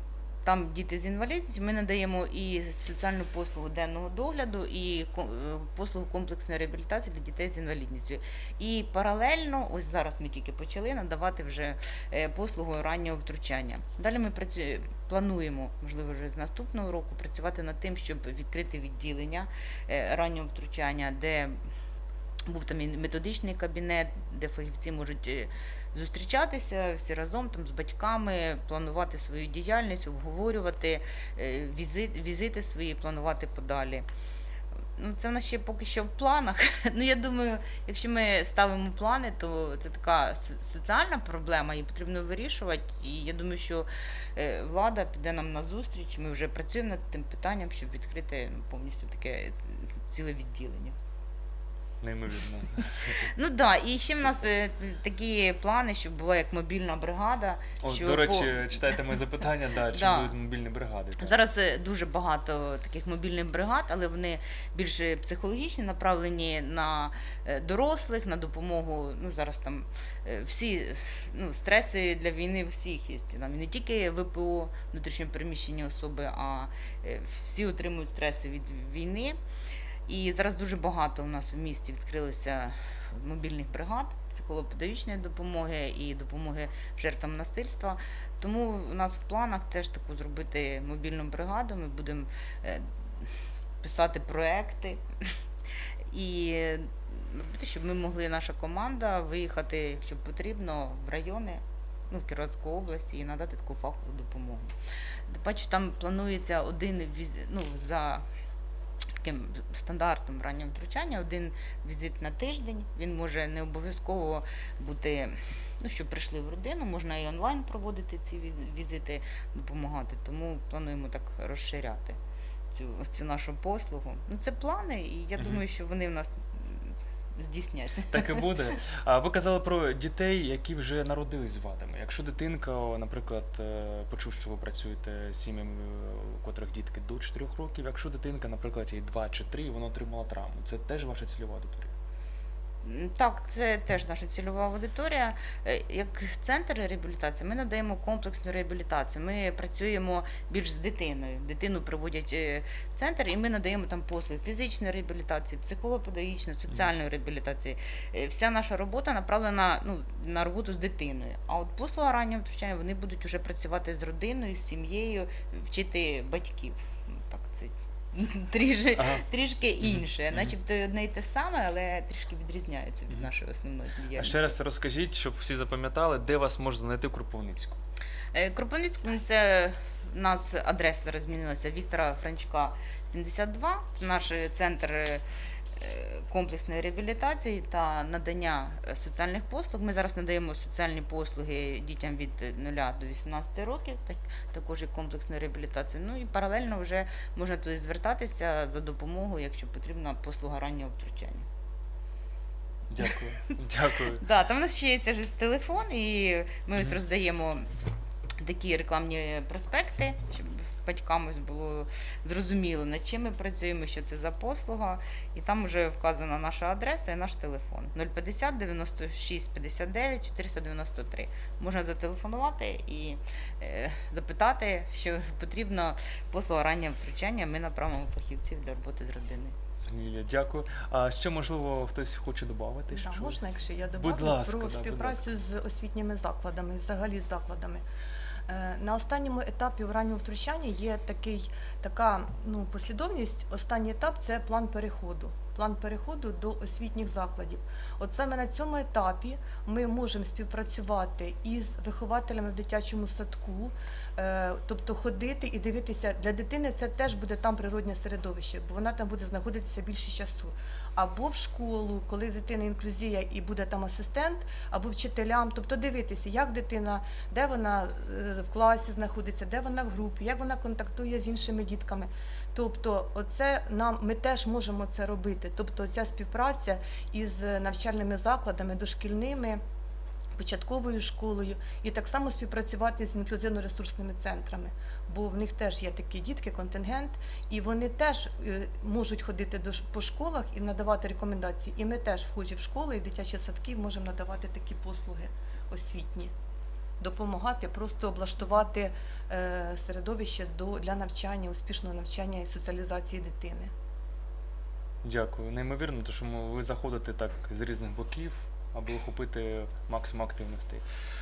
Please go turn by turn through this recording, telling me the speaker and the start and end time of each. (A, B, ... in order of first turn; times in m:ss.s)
0:00.4-0:21.6 A
0:22.4-0:34.0 A
0:35.0-0:50.9 A
0:52.0-0:53.3 B
0:53.3-0:59.0 A
0:54.2-0:54.4 B
0:57.8-1:01.4 B
0:59.9-1:00.3 A
1:01.2-1:19.4 A
1:20.1-1:35.0 A
1:36.1-1:44.7 A
1:45.3-1:48.2 A
1:49.2-2:02.2 A
2:02.7-2:08.4 A
2:08.1-2:21.9 B
2:22.8-2:54.5 A
2:49.0-2:49.2 B
2:49.8-2:50.5 B
2:54.1-2:57.8 B
2:58.3-3:05.2 A
3:05.8-3:21.4 A
3:22.9-3:24.2 B
3:24.2-3:27.7 A
3:28.4-3:49.5 A
3:49.9-3:55.4 B
3:52.9-3:57.8 C
3:58.5-4:39.6 C
4:40.4-4:56.3 C
4:57.0-5:03.7 C
5:05.0-5:10.8 B